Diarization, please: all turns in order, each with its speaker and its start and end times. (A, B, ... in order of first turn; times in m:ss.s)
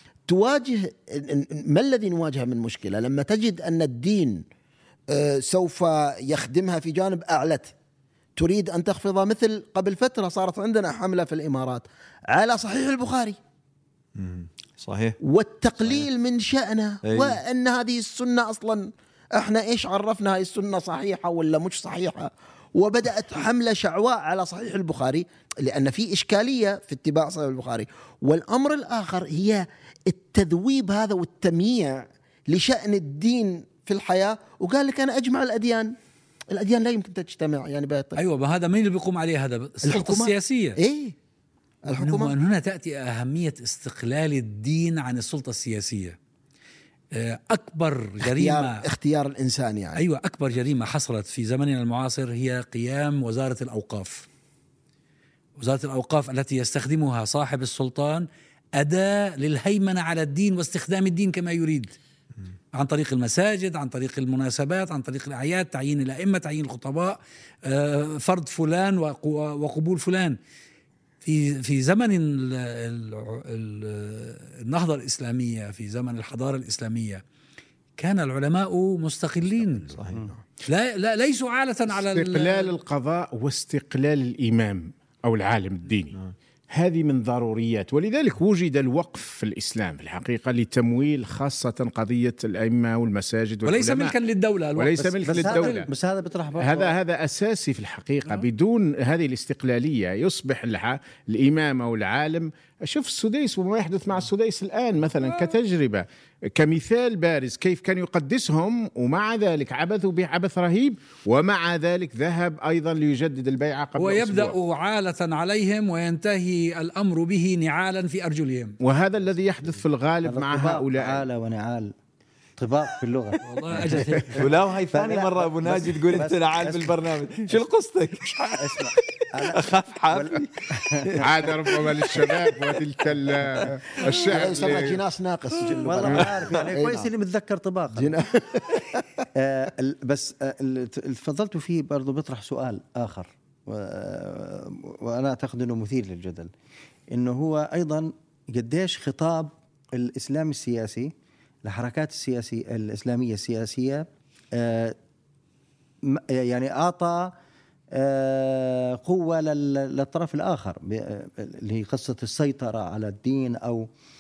0:00.3-0:04.4 A
0:05.1-0:07.7 A
0:08.4-0:13.4 A
0:14.2-0:15.2 B
0:15.2-0:35.9 A
0:17.0-0:17.4 B
0:36.5-0:38.2 A
0:38.2-0:40.8 C
0:39.9-0:41.2 A
0:41.9-0:42.4 A
0:41.9-0:46.2 C
0:47.1-0:48.9 C
0:48.2-0:50.0 A
0:50.0-0:54.3 C
0:55.6-1:01.9 C
1:02.8-1:10.4 C
1:11.2-1:17.2 C
1:18.0-1:20.0 C
1:19.9-1:20.2 B
1:20.6-1:22.8 C
1:21.9-1:26.2 D
1:26.7-1:34.2 D
1:33.6-1:35.8 C
1:34.8-1:35.9 D
1:35.2-1:37.0 E
1:36.6-1:54.6 D
1:54.0-1:58.8 C
1:58.8-2:01.3 D
2:00.2-2:02.0 E
2:02.6-2:07.6 E
2:03.4-2:04.5 C
2:04.4-2:12.7 B
2:08.5-2:11.4 E
2:11.2-2:15.0 D
2:14.0-2:17.1 A
2:15.8-2:18.2 E
2:16.1-2:16.3 D
2:18.0-2:19.1 A
2:19.4-2:26.5 E
2:27.1-2:31.1 E
2:31.6-2:35.0 E
2:36.0-2:37.3 E
2:37.9-2:43.9 E